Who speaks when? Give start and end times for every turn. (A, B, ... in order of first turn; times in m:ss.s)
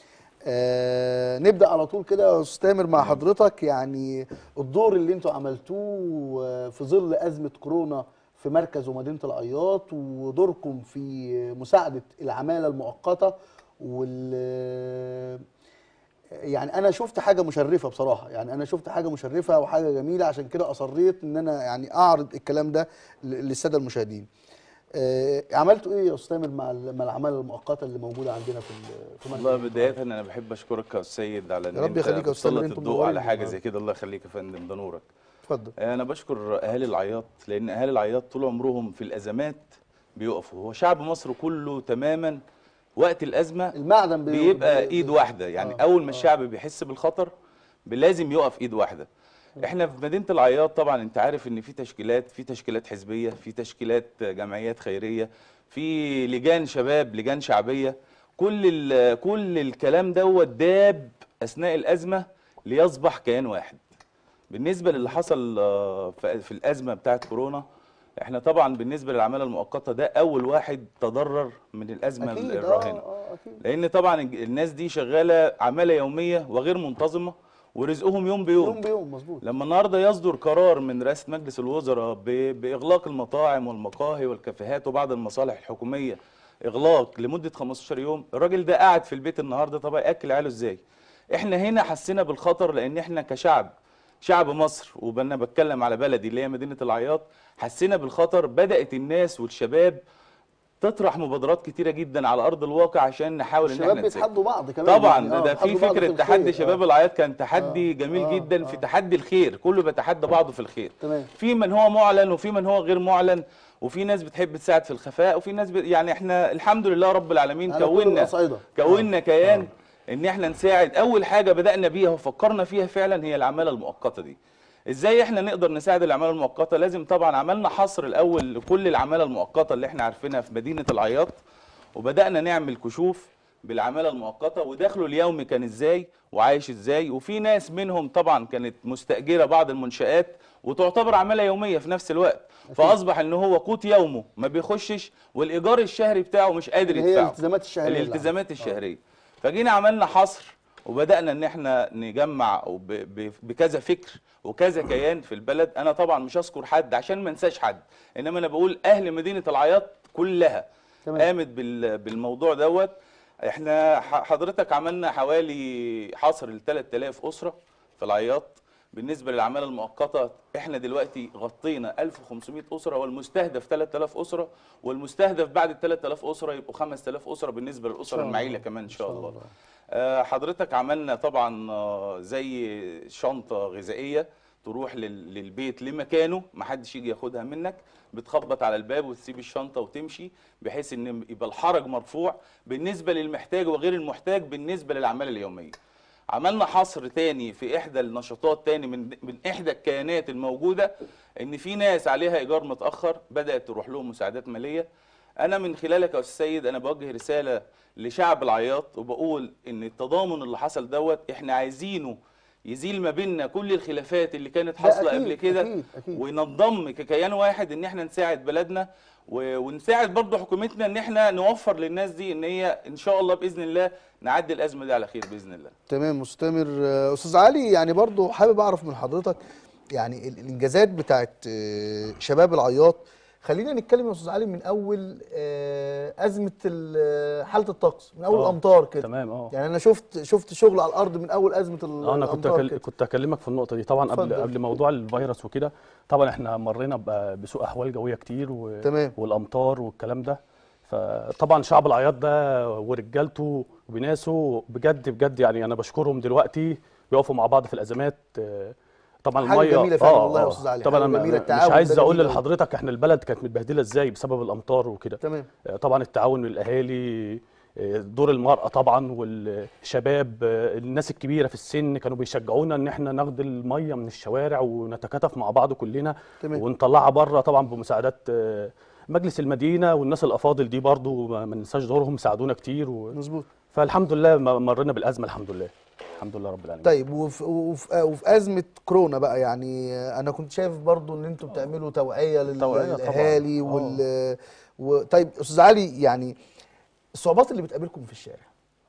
0:00.5-0:15.4 A
0:03.0-0:03.2 B
0:16.5-0:24.3 A
0:25.0-0:29.9 A
0:29.3-0:35.0 B
0:31.8-0:33.6 A
0:35.5-0:35.7 A
0:35.8-0:42.4 B
0:43.0-0:43.7 B
0:43.8-0:46.3 A
0:44.3-0:47.3 B
0:47.9-0:49.1 B
0:49.6-1:03.8 B
1:04.5-1:07.6 B
1:08.2-1:13.0 B
1:12.2-1:13.6 A
1:13.6-1:18.8 B
1:18.6-1:19.4 A
1:19.4-1:30.8 B
1:31.3-1:33.7 B
1:34.2-1:40.0 B
1:40.8-1:44.3 B
1:43.6-1:46.8 A
1:44.8-2:04.4 B
1:47.6-1:48.8 A
1:51.0-1:51.3 A
1:57.7-1:59.1 A
2:04.9-2:11.4 B
2:12.0-2:40.6 B
2:22.7-2:23.0 A
2:26.9-2:28.8 A
2:41.2-2:43.0 B
2:43.5-2:59.4 B
2:58.1-2:59.5 A
2:59.9-3:15.8 B
3:16.3-3:24.9 B
3:25.4-3:32.2 B
3:32.7-3:45.7 B
3:34.8-3:36.2 A
3:45.9-3:49.4 A
3:50.0-4:02.8 A
3:58.3-3:59.5 C
4:02.0-4:43.2 C
4:04.1-4:04.5 A
4:08.8-4:09.2 A
4:19.4-4:22.4 A
4:25.2-4:25.5 A
4:43.1-4:43.5 A
4:43.7-4:47.0 C
4:46.8-4:56.4 A
4:52.5-4:54.0 C
4:57.2-4:58.5 A